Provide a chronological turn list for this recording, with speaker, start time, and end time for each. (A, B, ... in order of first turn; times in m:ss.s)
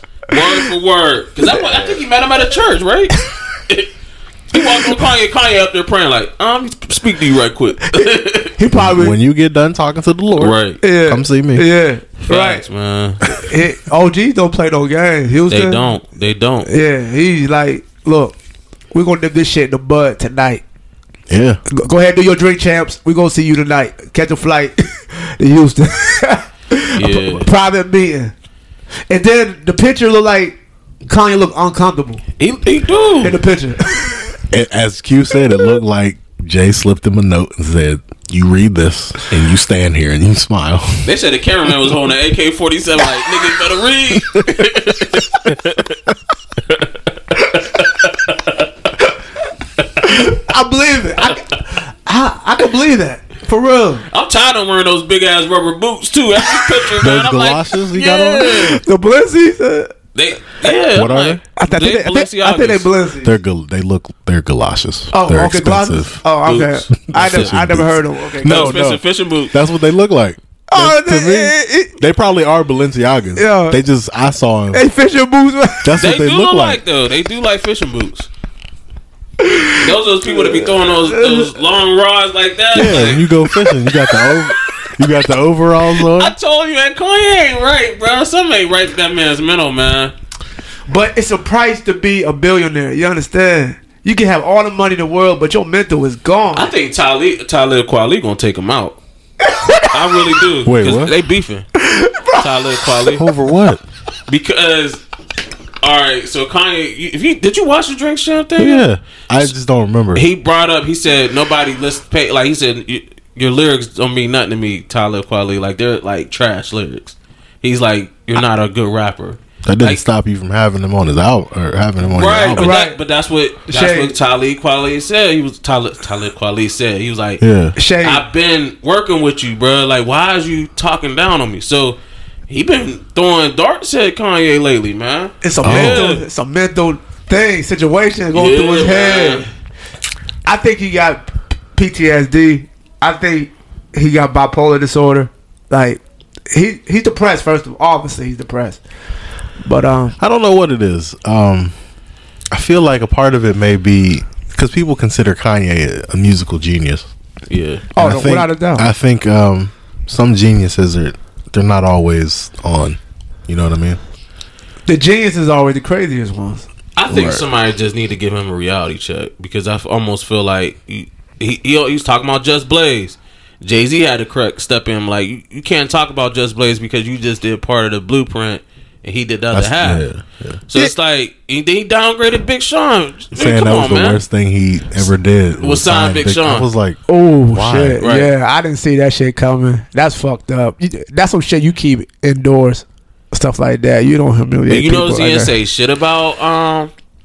0:00.3-0:03.9 A
0:01.4-0:01.9 B
0:04.5-0:08.6 A
0:08.6-0:09.2 B
0:08.7-0:11.7 C
0:10.4-0:10.8 A
0:10.8-0:12.6 B
0:12.2-0:13.2 A
0:13.4-0:15.9 B
0:15.5-0:16.7 A
0:16.6-0:18.4 B
0:18.9-0:20.6 B
0:21.3-0:21.6 C
0:21.7-0:28.3 B
0:26.9-0:27.5 A
0:29.1-0:32.2 B
0:32.4-0:33.4 A
0:33.2-0:34.3 B
0:34.5-0:41.1 C
0:41.0-0:46.0 A
0:46.7-0:48.7 A
0:50.0-0:54.0 B
0:54.1-0:58.8 A
0:57.0-0:58.8 C
0:58.8-0:59.9 B
1:00.1-1:02.9 A
1:00.9-1:01.4 C
1:01.6-1:03.3 B
1:03.2-1:06.2 C
1:05.1-1:08.8 B
1:06.4-1:07.6 A
1:07.0-1:14.8 C
1:08.4-1:09.6 A
1:10.7-1:12.0 B
1:13.4-1:13.8 B
1:14.7-1:16.0 B
1:15.8-1:16.8 C
1:16.0-1:18.3 A
1:19.4-1:21.6 B
1:19.8-1:23.3 A
1:22.7-1:26.3 C
1:26.1-1:30.1 A
1:30.9-1:36.7 B
1:36.5-1:39.0 A
1:39.4-1:40.0 B
1:39.9-1:41.7 A
1:40.6-1:41.1 C
1:41.8-1:42.8 B
1:42.4-1:43.2 A
1:43.1-1:43.8 C
1:44.3-1:45.0 A
1:45.8-1:48.9 A
1:48.6-1:50.2 C
1:50.1-2:00.0 A
1:59.6-2:02.8 C
2:02.0-2:07.4 A
2:02.6-2:03.0 B
2:03.7-2:04.2 B
2:07.4-2:07.8 C
2:07.8-2:08.2 B
2:08.0-2:16.2 A
2:15.4-2:19.5 B
2:15.6-2:16.1 C
2:18.3-2:19.5 A
2:20.4-2:28.8 B
2:29.6-2:30.2 B
2:30.2-2:31.8 C
2:32.5-2:37.1 C
2:37.5-2:37.8 A
2:37.9-2:38.9 B
2:38.0-2:44.0 C
2:44.8-2:46.7 B
2:47.0-3:00.1 A
2:47.1-2:47.4 C
2:59.5-3:00.6 C
3:00.7-3:04.2 A
3:03.3-3:08.0 C
3:05.6-3:06.7 A
3:07.1-3:15.5 B
3:08.0-3:08.3 A
3:14.7-3:16.9 A